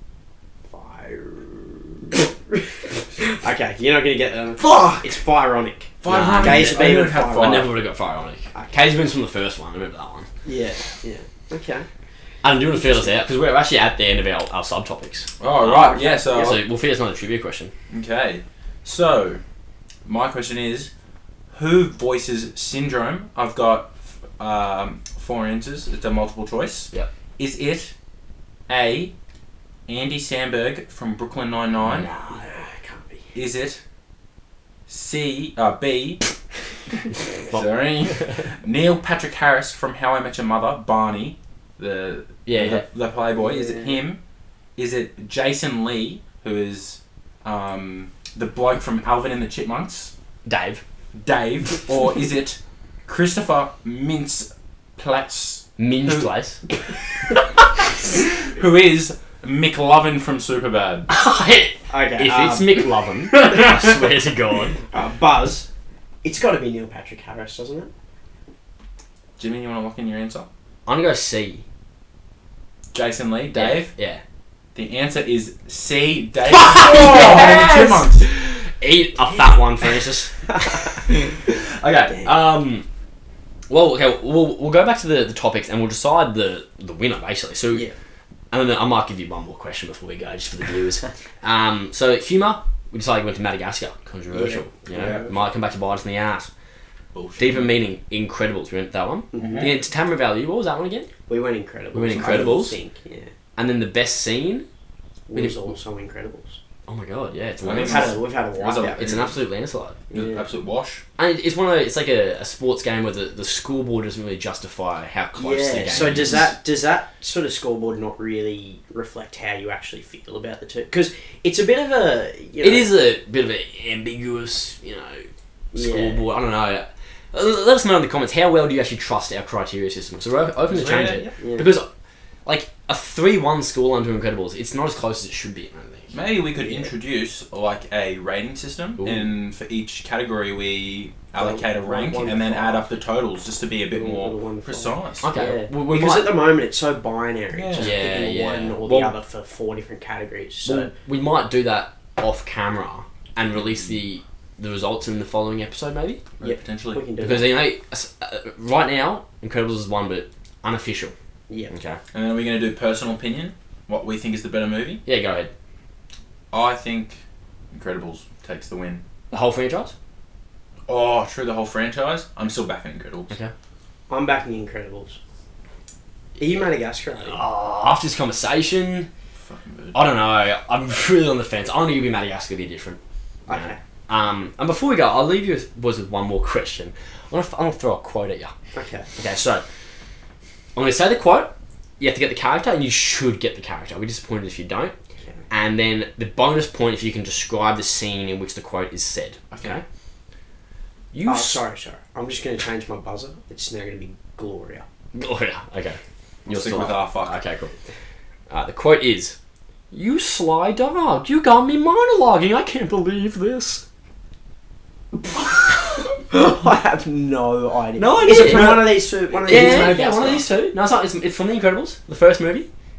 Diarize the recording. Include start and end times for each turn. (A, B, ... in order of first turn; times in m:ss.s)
0:00.7-0:07.7 A
0:04.6-0:05.1 B
0:06.0-0:07.7 C
0:06.1-0:10.3 B
0:10.4-0:11.9 A
0:12.4-0:17.7 B
0:12.7-0:13.1 A
0:15.4-0:16.6 C
0:15.6-0:16.6 A
0:17.9-0:19.4 C
0:20.1-0:20.9 C
0:21.5-0:27.9 C
0:28.7-0:29.1 C
0:29.9-0:32.1 C
0:31.8-0:32.5 B
0:32.3-0:33.2 A
0:33.4-0:33.8 C
0:34.9-0:36.3 C
0:37.4-0:44.2 C
0:37.5-0:38.4 B
0:42.5-0:42.8 B
0:43.4-0:44.0 A
0:44.8-0:50.1 C
0:50.4-0:50.8 B
0:51.1-0:56.3 C
0:55.8-0:56.6 B
0:58.0-1:01.1 C
1:01.1-1:04.8 B
1:01.9-1:02.8 A
1:03.3-1:04.0 C
1:04.9-1:05.7 A
1:06.2-1:07.9 A
1:09.4-1:10.5 C
1:10.9-1:11.6 B
1:12.9-1:13.9 C
1:13.5-1:14.2 B
1:14.8-1:18.3 C
1:16.5-1:22.9 B
1:23.7-1:27.9 B
1:28.5-1:36.5 B
1:34.3-1:35.3 A
1:34.9-1:35.2 C
1:37.1-1:37.8 C
1:37.4-1:41.1 B
1:39.3-1:39.7 A
1:39.4-1:39.7 C
1:41.3-1:43.3 A
1:41.9-1:42.8 B
1:43.6-1:44.6 B
1:45.3-1:46.6 A
1:45.3-1:45.7 B
1:46.9-1:48.2 B
1:47.6-1:49.4 C
1:47.8-1:49.2 A
1:48.9-1:50.0 B
1:50.1-1:50.4 A
1:50.1-1:51.0 C
1:51.2-1:56.5 B
1:55.4-2:02.9 A
1:55.9-1:56.5 C
2:02.6-2:11.9 B
2:05.7-2:06.2 A
2:10.6-2:11.3 C
2:11.4-2:11.7 A
2:12.4-2:16.1 B
2:16.1-2:25.3 C
2:16.6-2:16.9 A
2:19.0-2:19.3 B
2:21.4-2:22.9 A
2:23.9-2:30.9 A
2:25.2-2:26.3 B
2:27.5-2:28.0 C
2:27.8-2:29.1 B
2:30.6-2:36.2 B
2:33.5-2:34.0 C
2:36.4-2:37.0 C
2:36.4-2:37.6 A
2:37.2-2:41.1 B
2:41.5-2:41.7 A
2:41.7-2:42.0 B
2:42.1-2:45.0 C
2:45.1-2:45.5 B
2:46.5-2:47.2 C
2:47.7-2:49.0 C
2:49.3-2:49.9 B
2:50.9-2:53.4 C
2:54.1-2:55.2 A
2:56.4-2:57.4 A
2:57.2-2:59.1 B
2:59.4-3:00.1 C
2:59.9-3:08.5 B
3:03.5-3:03.8 A
3:08.7-3:09.1 A
3:09.2-3:09.6 B
3:10.8-3:14.9 B
3:15.5-3:19.8 B
3:19.5-3:19.8 C
3:21.1-3:21.6 B
3:21.3-3:24.8 A
3:25.1-3:27.7 B
3:26.4-3:27.4 C
3:28.5-3:29.4 B
3:29.9-3:33.8 B
3:35.7-3:40.5 A
3:38.0-3:42.7 B
3:39.5-3:40.4 C